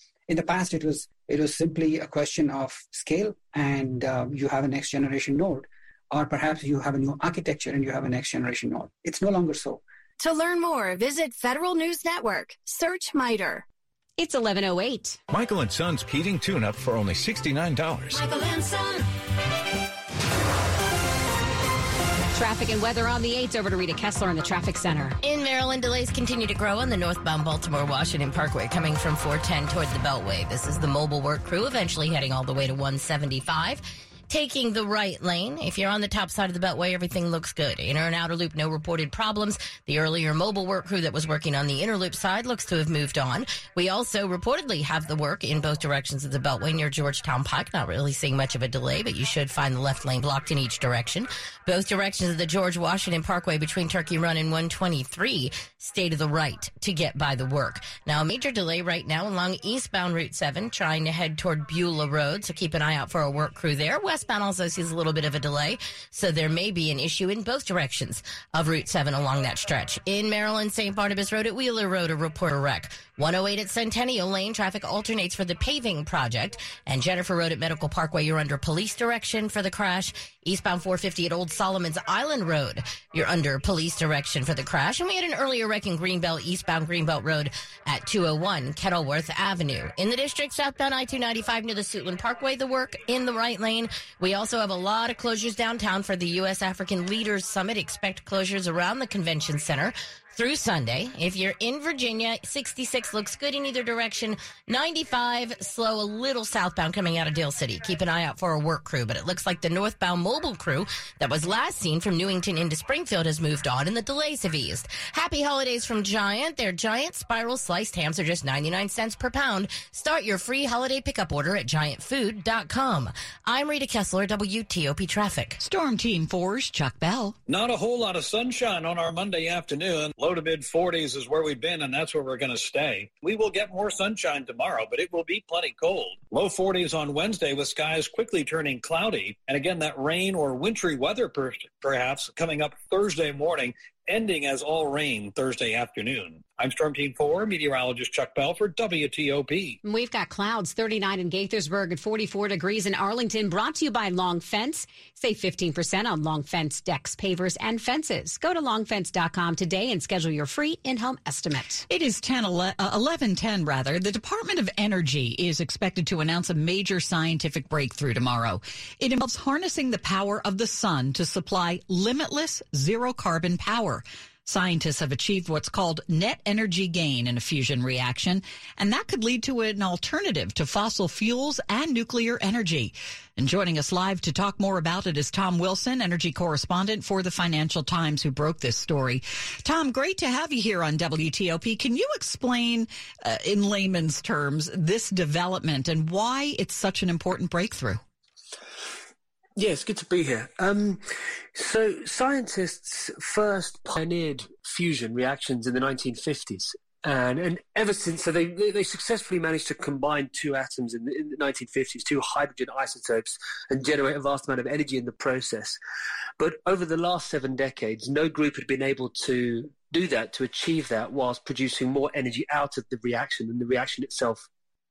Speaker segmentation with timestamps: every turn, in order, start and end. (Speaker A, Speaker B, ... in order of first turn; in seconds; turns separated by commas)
Speaker A: 0.3-9.8, Speaker B: 10.2-13.6, Speaker C: 14.2-15.2, Speaker D: 15.3-18.2, Speaker C: 22.3-25.2, Speaker E: 25.2-125.6, Speaker F: 125.6-127.4, Speaker G: 127.5-149.8, Speaker C: 149.8-161.8, Speaker F: 161.9-198.0, Speaker H: 199.6-201.0, Speaker H: 201.5-215.8, Speaker H: 216.4-224.5